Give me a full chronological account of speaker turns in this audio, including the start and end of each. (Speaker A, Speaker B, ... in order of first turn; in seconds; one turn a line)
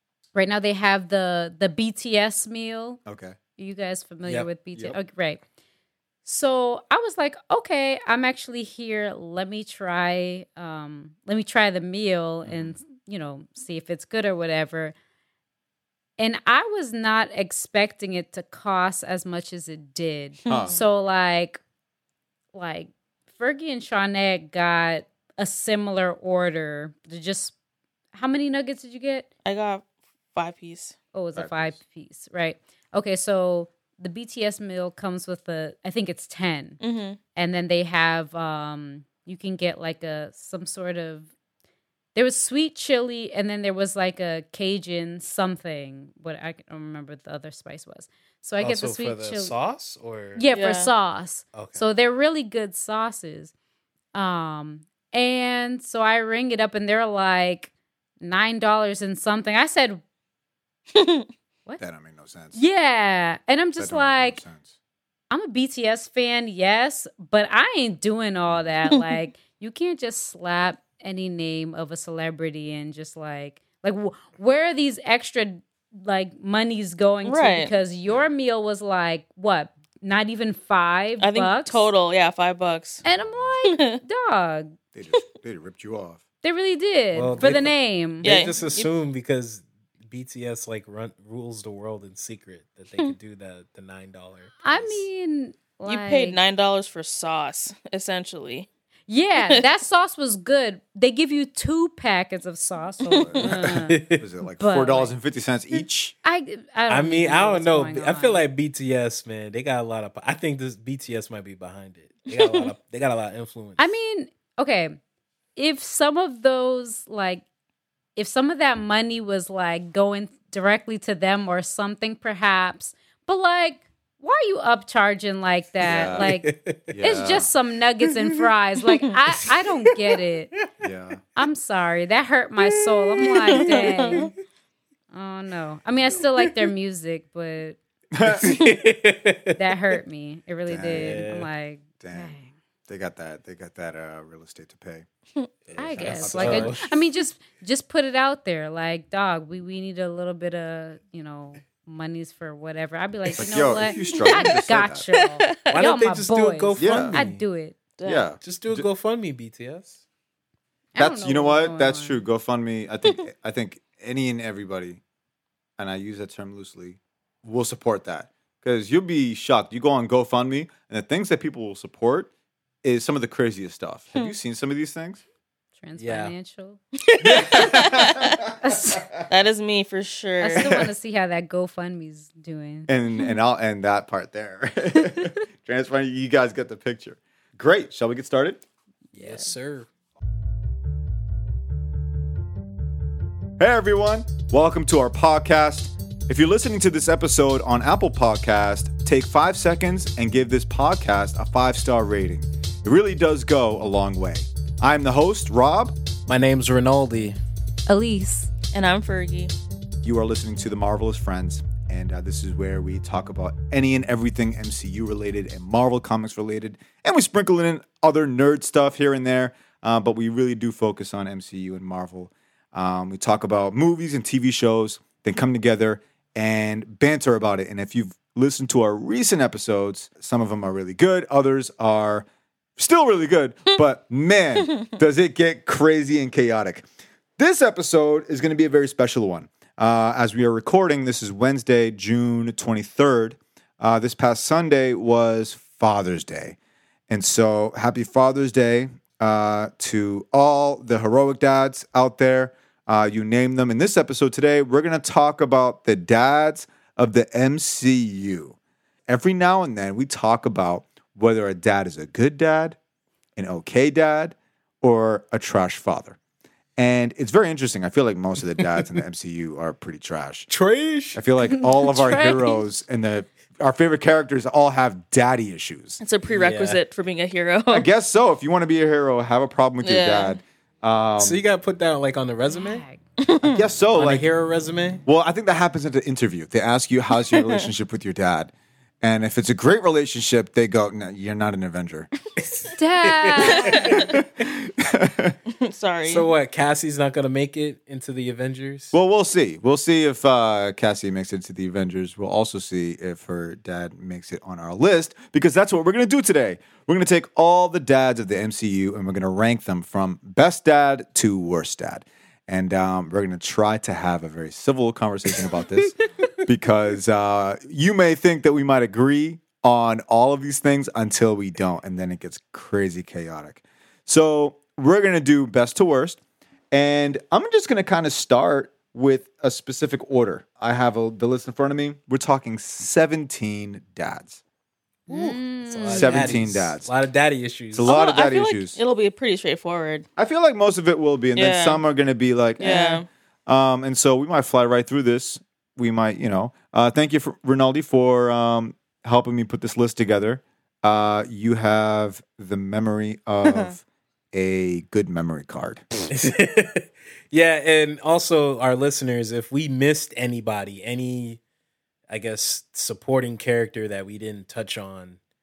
Speaker A: 0.3-3.0
Speaker B: 3.1-3.4
Speaker A: 3.6-5.4
Speaker A: 6.2-14.9
Speaker B: 12.4-12.8
Speaker A: 16.2-21.6
Speaker C: 20.4-20.8
Speaker B: 20.5-20.8
Speaker A: 22.5-27.6
Speaker A: 28.1-29.3
Speaker C: 29.4-30.9
Speaker A: 31.1-36.8
Speaker B: 31.4-31.8
Speaker C: 36.8-37.2
Speaker A: 37.4-41.3
Speaker A: 42.1-49.5
Speaker D: 48.6-50.5
Speaker A: 50.4-53.5
Speaker C: 50.5-50.9
Speaker D: 51.5-51.8
Speaker A: 54.1-60.0
Speaker C: 60.9-61.3
Speaker B: 61.8-62.6
Speaker A: 62.5-64.4
Speaker B: 63.8-64.7
Speaker A: 65.3-81.9
Speaker C: 77.2-77.7
Speaker C: 81.2-83.0
Speaker A: 83.0-84.8
Speaker C: 83.7-84.0
Speaker B: 84.9-86.2
Speaker A: 86.4-88.5
Speaker D: 87.1-95.0
Speaker B: 87.4-87.7
Speaker C: 88.2-88.9
Speaker A: 94.6-96.4
Speaker C: 95.9-98.7
Speaker A: 99.1-104.0
Speaker C: 103.1-103.5
Speaker B: 103.2-106.2
Speaker D: 103.6-104.2
Speaker A: 104.6-105.1
Speaker A: 106.2-108.4
Speaker D: 106.9-113.9
Speaker C: 112.3-112.7
Speaker A: 113.8-115.0
Speaker A: 115.6-117.5
Speaker A: 118.2-130.5
Speaker B: 125.8-126.3
Speaker D: 126.1-126.9
Speaker B: 126.9-127.5
Speaker D: 128.0-128.4
Speaker D: 129.3-130.7
Speaker B: 130.8-131.2
Speaker A: 131.3-134.3
Speaker D: 132.6-134.2
Speaker C: 133.4-134.3
Speaker A: 135.1-137.8
Speaker D: 136.4-136.7
Speaker B: 138.1-138.6
Speaker D: 138.2-139.8
Speaker A: 139.6-142.5
Speaker B: 140.7-141.3
Speaker D: 140.8-141.5
Speaker B: 142.0-142.3
Speaker B: 142.9-145.1
Speaker B: 145.7-146.9
Speaker A: 145.8-157.8
Speaker D: 146.0-146.9
Speaker B: 153.3-155.1
Speaker C: 154.0-154.5
Speaker C: 155.2-155.7
Speaker D: 155.7-157.4
Speaker B: 156.8-157.2
Speaker C: 158.0-158.3
Speaker B: 158.0-158.9
Speaker D: 158.4-160.0
Speaker A: 160.9-162.2
Speaker B: 161.0-165.0
Speaker B: 165.8-172.3
Speaker B: 172.8-175.2
Speaker A: 175.8-176.8
Speaker D: 176.0-176.3
Speaker C: 177.1-178.4
Speaker B: 177.2-179.2
Speaker A: 177.4-177.9
Speaker A: 178.4-179.2
Speaker C: 179.3-180.8
Speaker A: 180.4-182.9
Speaker B: 180.6-180.9
Speaker B: 182.9-188.6
Speaker D: 189.1-189.9
Speaker C: 189.2-189.5
Speaker B: 193.6-205.9
Speaker D: 206.3-207.4
Speaker A: 207.9-208.5
Speaker C: 208.7-209.5
Speaker B: 210.0-236.9
Speaker B: 237.4-246.6
Speaker B: 247.1-258.6
Speaker B: 259.1-262.8
Speaker B: 263.4-266.2
Speaker B: 266.8-270.5
Speaker D: 268.6-269.0
Speaker D: 270.5-271.2
Speaker B: 271.1-276.0
Speaker A: 271.4-272.6
Speaker C: 276.0-277.9
Speaker D: 276.3-276.8
Speaker B: 277.7-281.4
Speaker C: 279.8-280.4
Speaker D: 281.2-282.9
Speaker A: 282.5-283.0
Speaker C: 283.2-283.6
Speaker B: 283.4-284.3
Speaker D: 283.9-285.0
Speaker B: 285.1-292.1
Speaker C: 287.3-287.6
Speaker D: 292.4-294.2
Speaker A: 292.8-294.1
Speaker C: 293.5-294.0
Speaker B: 293.8-295.4
Speaker C: 295.5-296.3
Speaker D: 296.1-298.9
Speaker B: 298.9-326.2
Speaker B: 326.7-334.4
Speaker A: 335.1-336.4
Speaker B: 335.1-336.9
Speaker D: 335.1-337.9
Speaker B: 337.7-338.8
Speaker C: 337.8-340.1
Speaker B: 340.2-342.8
Speaker C: 341.4-341.8
Speaker C: 342.6-343.1
Speaker A: 342.6-343.0
Speaker B: 343.5-355.9
Speaker C: 353.4-353.7
Speaker D: 356.1-361.4
Speaker D: 362.1-365.2